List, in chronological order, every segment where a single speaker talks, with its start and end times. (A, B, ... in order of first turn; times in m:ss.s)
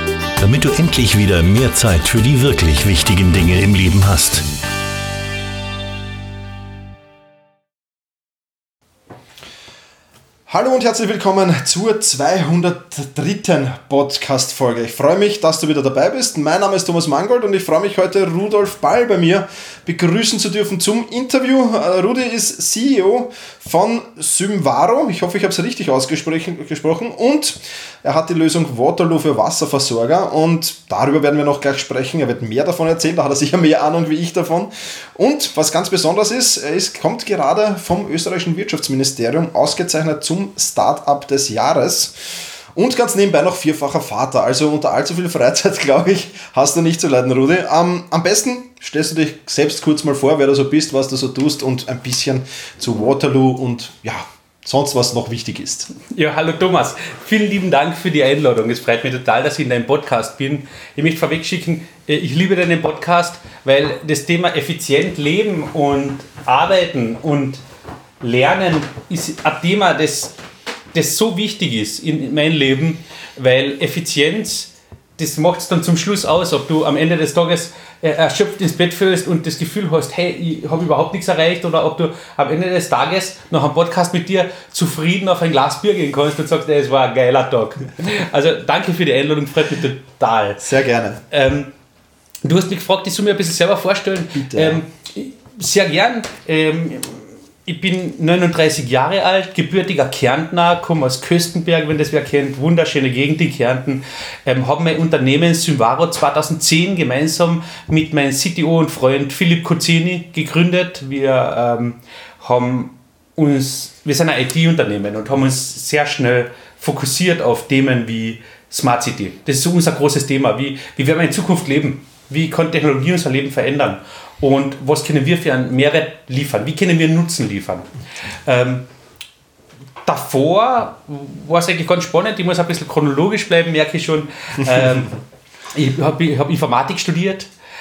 0:00.4-0:04.4 A
0:10.5-0:55.9 B
0:56.1-1:07.6 C
1:08.2-1:10.3 C
1:10.9-1:30.6 C
1:30.6-1:31.2 B
1:31.3-1:31.7 C
1:32.4-2:07.9 C
1:34.4-1:34.8 B
2:08.4-2:08.8 C
2:10.0-2:15.2 C
2:15.7-2:17.5 C